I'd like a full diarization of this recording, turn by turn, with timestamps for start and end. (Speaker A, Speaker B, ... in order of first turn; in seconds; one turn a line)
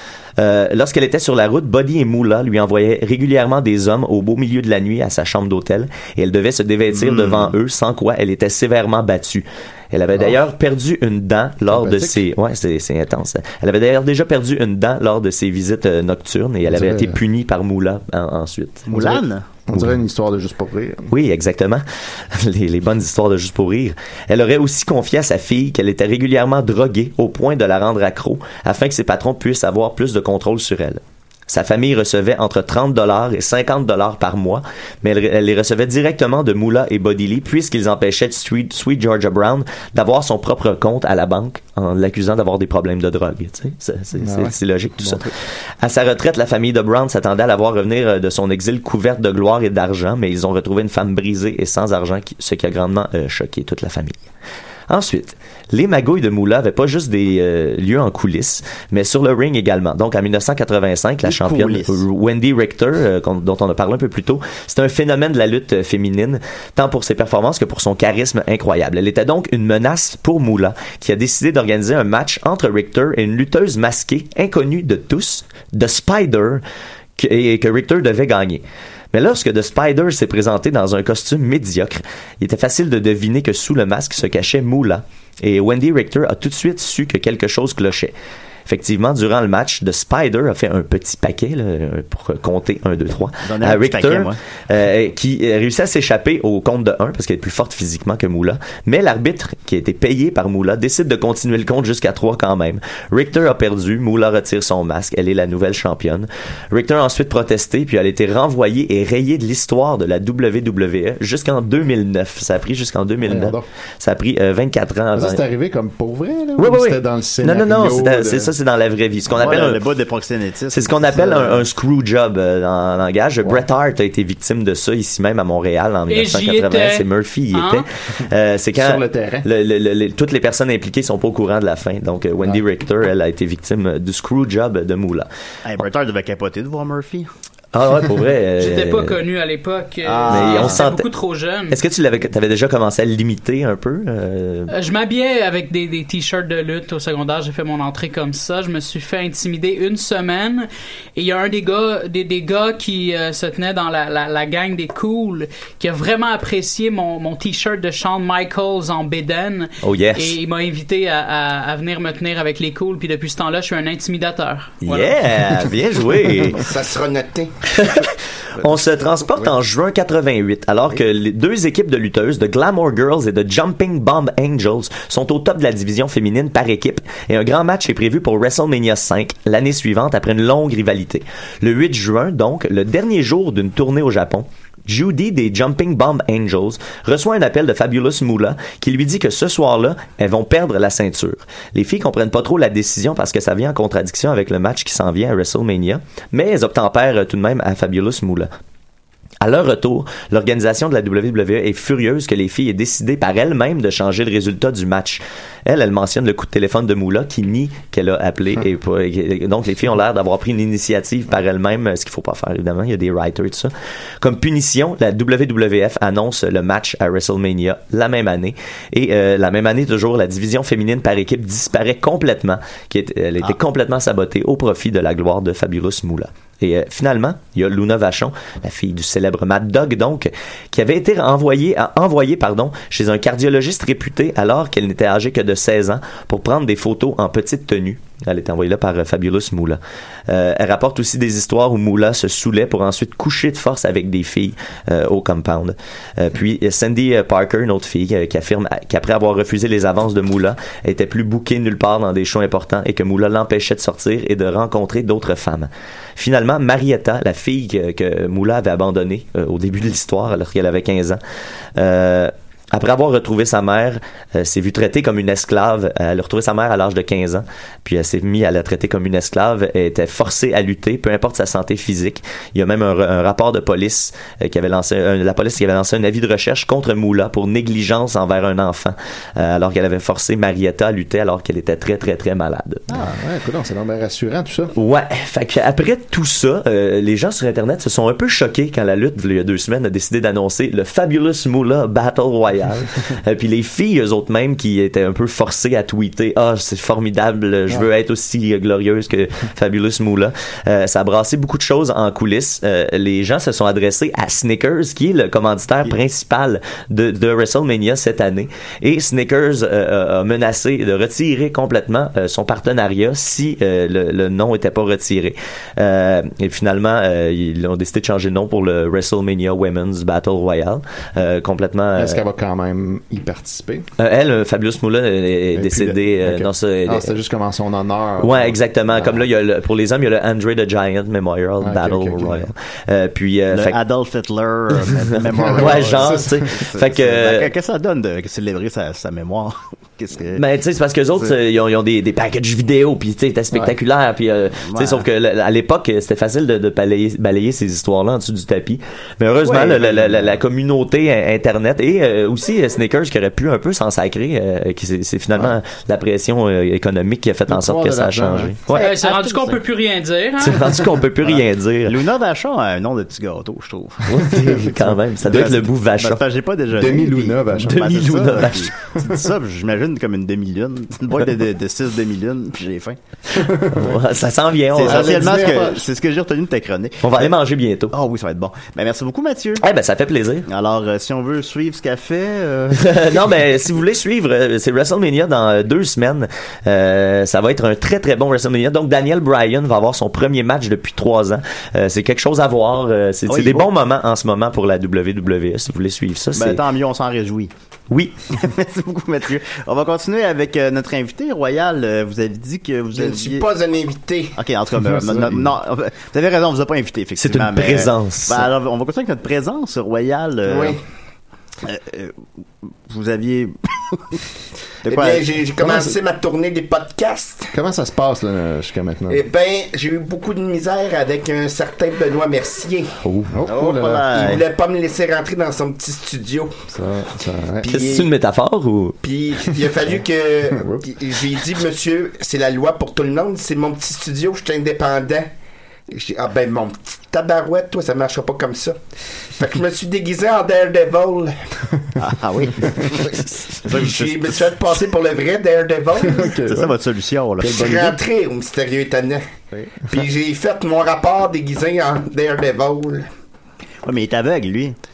Speaker A: 0.4-19.1
Speaker B: 6.9-7.5
Speaker C: 11.7-12.2
Speaker C: 16.7-17.2
Speaker B: 18.9-19.4
Speaker C: 19.7-21.1
Speaker A: 21.1-45.3
Speaker C: 44.2-45.3
Speaker A: 45.8-54.2
Speaker A: 54.9-76.6
Speaker B: 61.2-62.0
Speaker A: 77.2-88.1
Speaker A: 88.7-115.4
Speaker B: 93.4-94.4
Speaker C: 113.2-113.6
Speaker C: 115.1-118.5
Speaker A: 116.6-119.8
Speaker B: 119.3-121.5
Speaker A: 120.7-135.3
Speaker C: 121.2-121.5
Speaker D: 126.1-127.8
Speaker C: 128.7-129.5
Speaker B: 135.6-137.3
Speaker A: 137.7-139.2
Speaker D: 138.6-141.8
Speaker B: 140.0-140.9
Speaker A: 140.3-141.1
Speaker A: 141.7-144.7
Speaker D: 144.7-165.2
Speaker A: 159.8-160.4
Speaker A: 164.8-166.6
Speaker E: 166.5-167.6
Speaker A: 167.7-198.5
Speaker A: 199.4-261.2
Speaker A: 261.8-282.9
Speaker C: 282.9-284.7
Speaker A: 284.7-322.2
Speaker C: 321.9-323.9
Speaker A: 324.0-327.2
Speaker C: 325.6-329.3
Speaker A: 328.2-333.8
Speaker C: 331.6-332.5
Speaker B: 333.5-340.4
Speaker C: 335.2-336.4
Speaker A: 335.4-337.5
Speaker A: 340.4-358.9
Speaker B: 344.6-345.1
Speaker B: 349.5-349.8
Speaker C: 349.9-350.3
Speaker C: 357.5-358.6
Speaker B: 358.7-359.6
Speaker D: 358.7-360.6
Speaker A: 360.4-361.9
Speaker B: 361.2-364.2
Speaker A: 364.1-366.2
Speaker C: 364.3-364.7
Speaker B: 365.2-373.0
Speaker C: 366.7-367.9
Speaker A: 367.7-368.7
Speaker C: 373.4-373.9
Speaker A: 373.7-375.2
Speaker B: 374.7-377.3
Speaker C: 374.7-375.9
Speaker A: 377.0-377.9
Speaker B: 377.9-379.6
Speaker A: 379.6-380.4
Speaker B: 380.5-383.4
Speaker A: 382.8-396.6
Speaker B: 393.3-393.7
Speaker B: 396.3-397.5
Speaker A: 397.9-398.2
Speaker B: 398.3-403.4
Speaker E: 402.9-404.4
Speaker B: 404.4-410.8
Speaker C: 404.8-405.5
Speaker A: 407.2-408.4
Speaker E: 410.4-410.8
Speaker B: 411.6-412.2
Speaker B: 412.9-414.2
Speaker B: 414.8-415.3
Speaker E: 414.9-417.5
Speaker C: 415.6-415.9
Speaker C: 417.5-419.2
Speaker E: 419.1-423.0
Speaker A: 423.0-423.3
Speaker C: 423.3-424.1
Speaker B: 423.4-424.4
Speaker E: 424.1-426.6
Speaker C: 426.7-427.6
Speaker E: 427.6-428.1
Speaker A: 427.7-429.0
Speaker E: 429.0-435.3
Speaker C: 430.6-430.8
Speaker E: 435.9-438.8
Speaker E: 439.3-441.4
Speaker B: 442.0-444.4
Speaker E: 443.6-446.4
Speaker C: 446.0-446.8
Speaker B: 446.4-447.8
Speaker C: 447.4-448.0
Speaker E: 447.4-449.2
Speaker B: 449.5-449.8
Speaker E: 449.9-453.1
Speaker B: 453.8-454.8